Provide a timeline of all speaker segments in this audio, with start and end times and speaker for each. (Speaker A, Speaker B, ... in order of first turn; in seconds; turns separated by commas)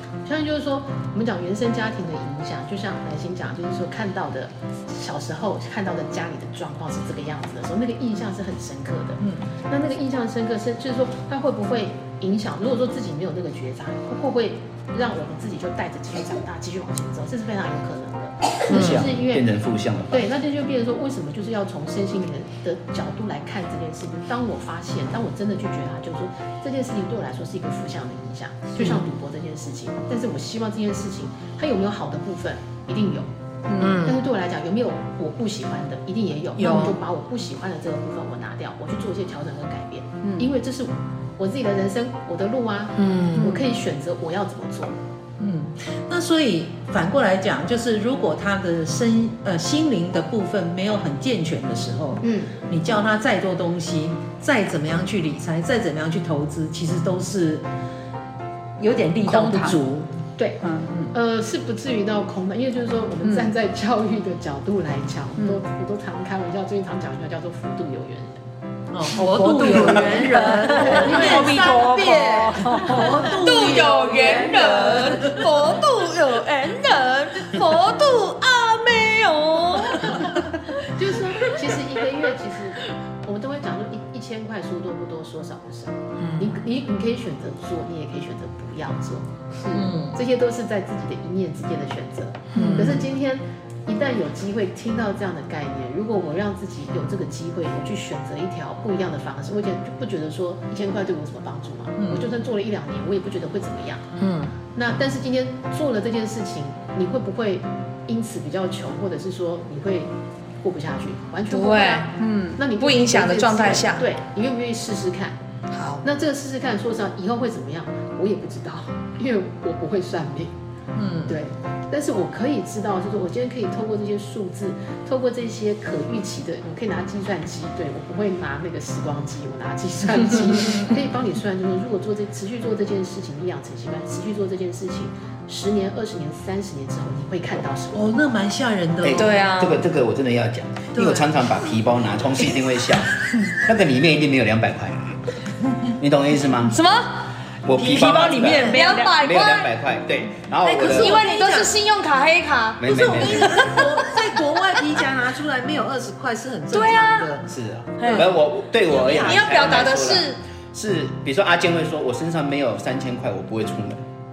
Speaker A: 0.2-19.5, Speaker B: 18.7-20.3, Speaker C: 18.7-19.0, Speaker A: 20.1-33.3, Speaker D: 33.7-33.9, Speaker E: 33.8-34.2, Speaker A: 33.8-45.0, Speaker E: 36.6-36.9, Speaker C: 36.6-36.9, Speaker E: 43.0-43.6, Speaker C: 45.4-57.6, Speaker A: 52.2-52.5, Speaker C: 58.8-60.1, Speaker D: 59.2-59.8, Speaker D: 60.6-60.9, Speaker A: 61.1-68.4, Speaker C: 68.9-75.6, Speaker E: 69.2-80.8, Speaker A: 69.7-71.4, Speaker D: 70.1-73.3, Speaker D: 74.2-75.0, Speaker A: 80.8-104.0, Speaker E: 81.4-81.7, Speaker C: 86.2-86.5, Speaker C: 89.7-90.2, Speaker C: 92.5-93.0, Speaker E: 92.6-92.9, Speaker C: 102.0-102.2, Speaker E: 104.2-104.5, Speaker A: 104.7-110.1, Speaker A: 110.6-115.4, Speaker E: 111.5-114.0, Speaker E: 115.7-116.0, Speaker A: 116.0-120.5, Speaker C: 121.0-121.3, Speaker A: 121.2-138.2, Speaker C: 137.9-139.4, Speaker B: 139.0-145.2, Speaker E: 139.1-139.8, Speaker C: 140.9-141.2, Speaker B: 145.8-146.8, Speaker E: 146.7-147.3, Speaker B: 147.6-151.3, Speaker C: 147.7-149.0, Speaker D: 147.7-149.2, Speaker E: 148.7-149.7, Speaker C: 150.6-151.7, Speaker E: 150.8-153.3, Speaker B: 152.8-153.7, Speaker C: 152.8-157.5, Speaker E: 156.7-157.3, Speaker B: 157.4-164.0, Speaker C: 158.0-159.6, Speaker E: 159.1-160.4